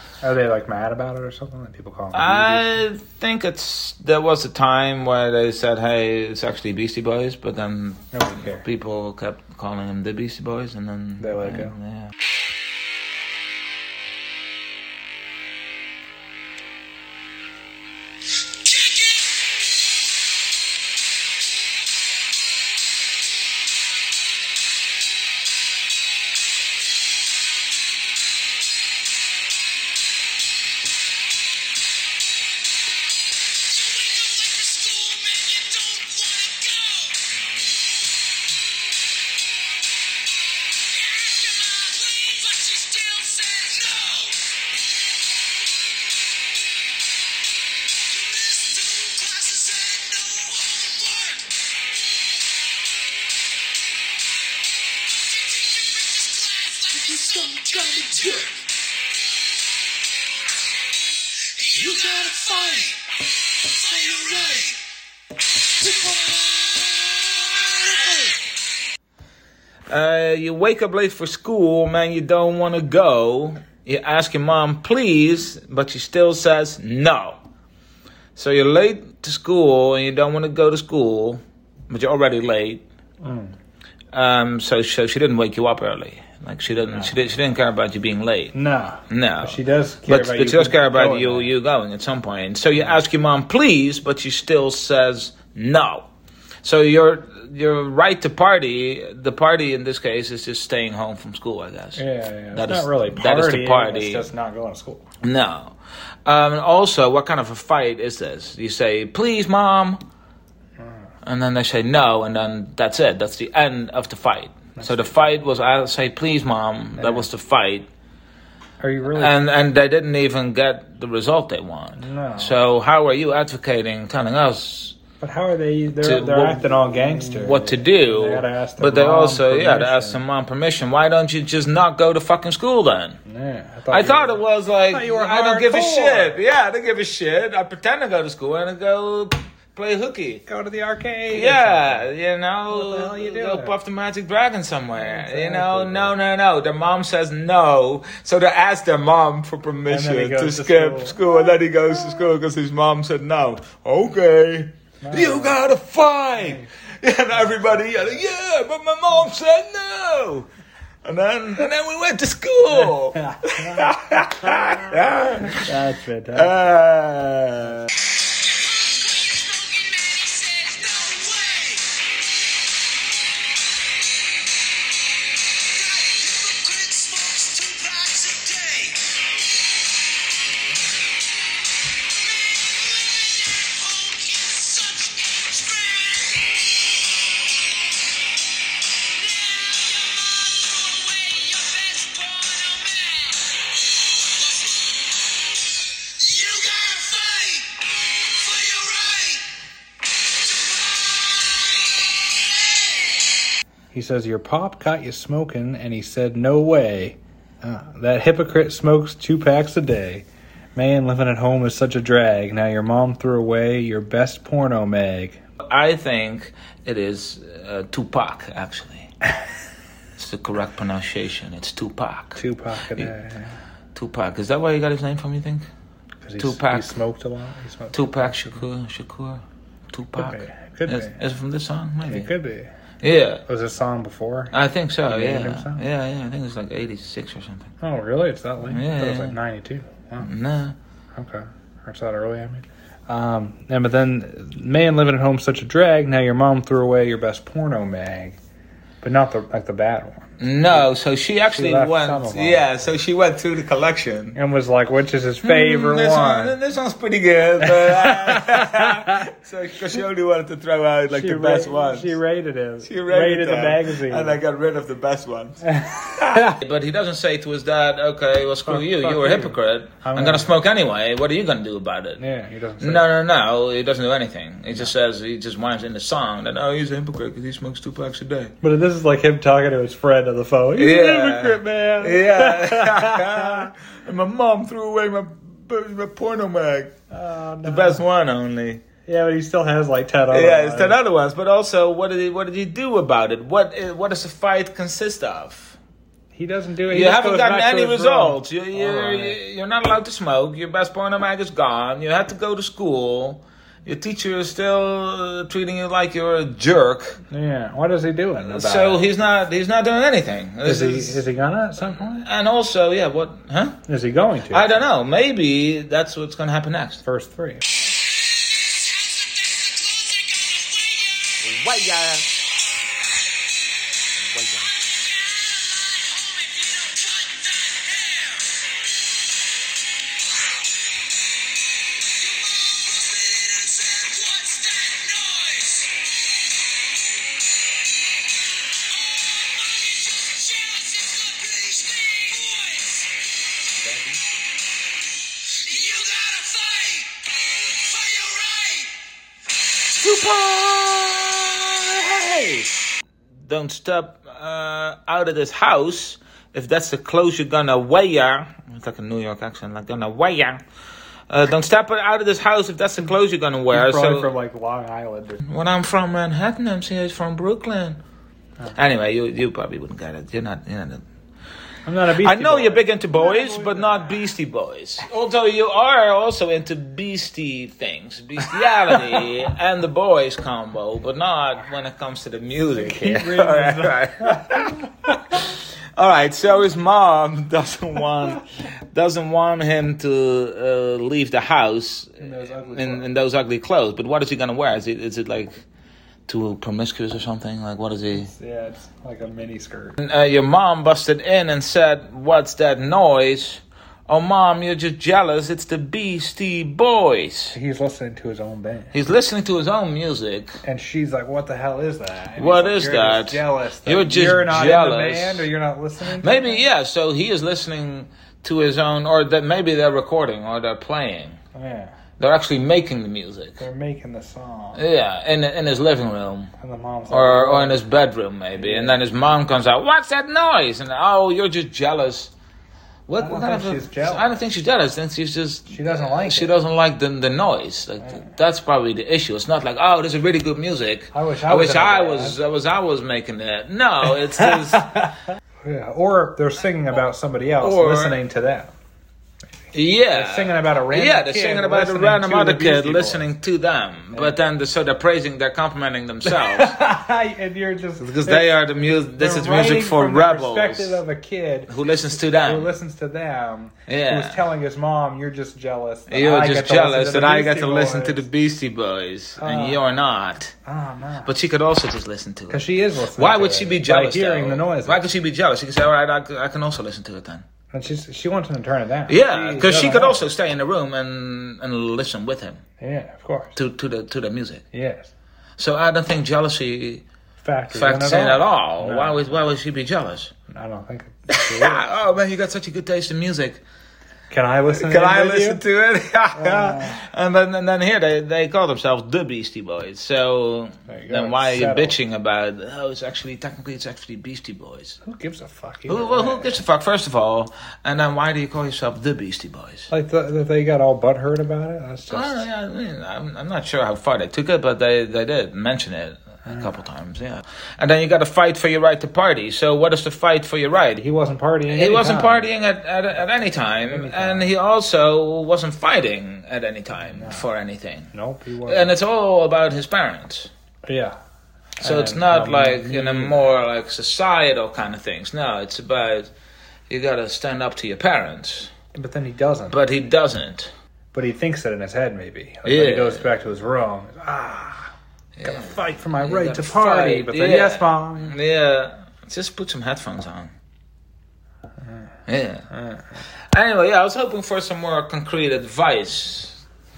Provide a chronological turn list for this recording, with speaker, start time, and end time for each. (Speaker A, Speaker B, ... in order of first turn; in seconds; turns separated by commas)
Speaker A: 0.2-2.7, Speaker B: 2.1-12.1, Speaker A: 8.1-8.6, Speaker A: 11.2-11.8, Speaker C: 33.7-37.2, Speaker C: 41.0-44.4, Speaker C: 48.1-51.4, Speaker C: 55.3-58.5, Speaker A: 57.3-57.7, Speaker C: 61.6-63.0, Speaker C: 63.8-64.8, Speaker C: 65.9-66.8, Speaker B: 69.9-77.4, Speaker B: 78.3-82.8, Speaker A: 83.2-83.5, Speaker B: 84.1-88.5, Speaker A: 86.9-87.2, Speaker A: 88.5-91.5, Speaker B: 89.1-96.1, Speaker A: 92.7-93.0, Speaker B: 96.6-104.2, Speaker A: 102.0-105.0, Speaker B: 105.2-105.7, Speaker B: 106.2-110.0, Speaker A: 110.8-111.1, Speaker B: 111.2-117.9, Speaker A: 114.8-115.2, Speaker A: 117.0-117.3, Speaker A: 118.8-119.5, Speaker B: 119.1-125.0, Speaker A: 122.0-122.6, Speaker A: 125.2-130.2, Speaker B: 126.0-133.2, Speaker A: 133.3-136.4, Speaker B: 133.9-140.4, Speaker A: 140.5-142.1, Speaker B: 141.3-160.5, Speaker A: 142.7-143.7, Speaker A: 145.0-146.1, Speaker A: 149.9-151.5, Speaker A: 155.0-155.6, Speaker A: 156.4-156.6, Speaker B: 161.0-165.7, Speaker A: 162.7-166.7, Speaker B: 166.3-167.9, Speaker C: 168.7-171.8, Speaker C: 175.8-179.0, Speaker C: 183.0-186.3, Speaker C: 190.6-193.3, Speaker C: 196.2-197.7, Speaker C: 198.4-199.4, Speaker A: 203.9-215.4, Speaker B: 215.6-219.1, Speaker B: 220.2-222.4, Speaker A: 222.3-223.6, Speaker B: 223.9-225.7, Speaker A: 226.2-228.6, Speaker B: 226.4-226.9, Speaker B: 227.9-232.3, Speaker A: 230.2-231.2, Speaker A: 232.1-232.7, Speaker B: 233.0-233.4, Speaker A: 233.5-234.5, Speaker B: 234.5-237.7, Speaker A: 235.1-235.8, Speaker A: 237.8-240.3, Speaker B: 238.7-239.3, Speaker B: 240.2-240.8, Speaker A: 241.1-248.4, Speaker A: 249.0-250.8, Speaker B: 250.4-254.4, Speaker A: 251.5-252.7, Speaker A: 254.3-256.6, Speaker B: 255.4-262.1, Speaker A: 257.6-259.2, Speaker A: 261.1-264.4, Speaker B: 262.8-265.6, Speaker A: 265.6-266.6, Speaker B: 266.3-272.2, Speaker A: 268.6-270.5, Speaker A: 272.2-273.0, Speaker B: 272.8-278.5, Speaker A: 278.6-283.7, Speaker B: 280.8-286.9, Speaker A: 287.1-288.0, Speaker B: 287.6-288.8, Speaker A: 289.1-291.0, Speaker B: 290.3-295.8, Speaker A: 296.3-299.4, Speaker B: 296.9-307.2, Speaker A: 307.3-309.1, Speaker B: 308.4-311.2, Speaker A: 310.6-312.2, Speaker B: 311.8-313.8, Speaker A: 313.9-314.8, Speaker B: 314.5-317.0, Speaker A: 317.0-317.6, Speaker C: 319.0-321.2, Speaker B: 321.4-322.3, Speaker B: 324.3-324.7, Speaker C: 325.3-328.4, Speaker C: 332.3-335.9, Speaker C: 339.1-342.9, Speaker C: 345.6-347.1, Speaker C: 347.9-348.9, Speaker B: 349.9-352.9, Speaker B: 353.4-360.6, Speaker B: 361.3-364.3, Speaker A: 363.7-365.4, Speaker B: 365.4-368.0, Speaker B: 368.7-371.0, Speaker A: 371.8-374.2, Speaker B: 372.2-384.9, Speaker A: 382.7-384.6, Speaker B: 386.0-395.6, Speaker A: 392.2-393.1, Speaker B: 396.3-398.3, Speaker A: 398.1-400.0, Speaker B: 400.0-407.6, Speaker A: 407.5-408.9, Speaker B: 408.9-410.6, Speaker A: 410.6-416.7, Speaker B: 412.4-415.5, Speaker B: 416.0-421.4, Speaker A: 421.5-421.9, Speaker B: 422.2-423.6, Speaker A: 423.6-424.8, Speaker B: 424.8-426.5, Speaker A: 426.6-427.8, Speaker B: 427.1-432.3, Speaker A: 428.6-429.0, Speaker B: 433.1-445.0, Speaker A: 433.2-434.4, Speaker A: 435.7-436.5, Speaker A: 438.0-438.3, Speaker A: 441.1-442.4, Speaker A: 444.4-445.1, Speaker A: 445.6-448.7, Speaker B: 447.6-448.1, Speaker B: 449.7-456.8, Speaker A: 450.1-453.2, Speaker A: 456.2-458.6, Speaker B: 458.0-461.0, Speaker A: 459.1-468.2, Speaker B: 461.7-462.8, Speaker B: 463.9-464.4, Speaker B: 466.1-470.5, Speaker A: 469.4-469.8, Speaker A: 470.6-471.3, Speaker B: 471.2-477.4, Speaker A: 472.5-475.1, Speaker A: 477.7-480.2, Speaker B: 479.1-482.6, Speaker A: 482.8-483.6, Speaker B: 483.6-484.6, Speaker A: 484.7-485.1, Speaker B: 485.6-487.0, Speaker A: 487.4-489.3, Speaker B: 487.7-490.3, Speaker A: 490.5-491.9, Speaker B: 491.3-493.6, Speaker A: 494.3-495.6, Speaker B: 494.7-505.0, Speaker A: 496.3-497.1, Speaker A: 500.9-502.0, Speaker A: 505.0-506.6, Speaker B: 505.9-509.9, Speaker A: 509.9-512.5, Speaker B: 512.1-521.0, Speaker A: 516.5-516.7, Speaker A: 521.0-522.5, Speaker B: 521.7-528.1, Speaker A: 523.9-524.5, Speaker A: 527.1-527.5, Speaker A: 528.1-528.9, Speaker B: 528.6-530.5, Speaker A: 530.9-531.1, Speaker A: 531.8-533.5, Speaker B: 531.8-536.3, Speaker B: 536.9-538.7, Speaker A: 538.9-539.8, Speaker B: 539.7-540.7, Speaker A: 541.1-544.9, Speaker B: 542.6-543.2, Speaker B: 545.4-550.5, Speaker A: 545.4-548.4, Speaker B: 552.3-552.7, Speaker A: 552.7-553.1, Speaker B: 553.5-556.6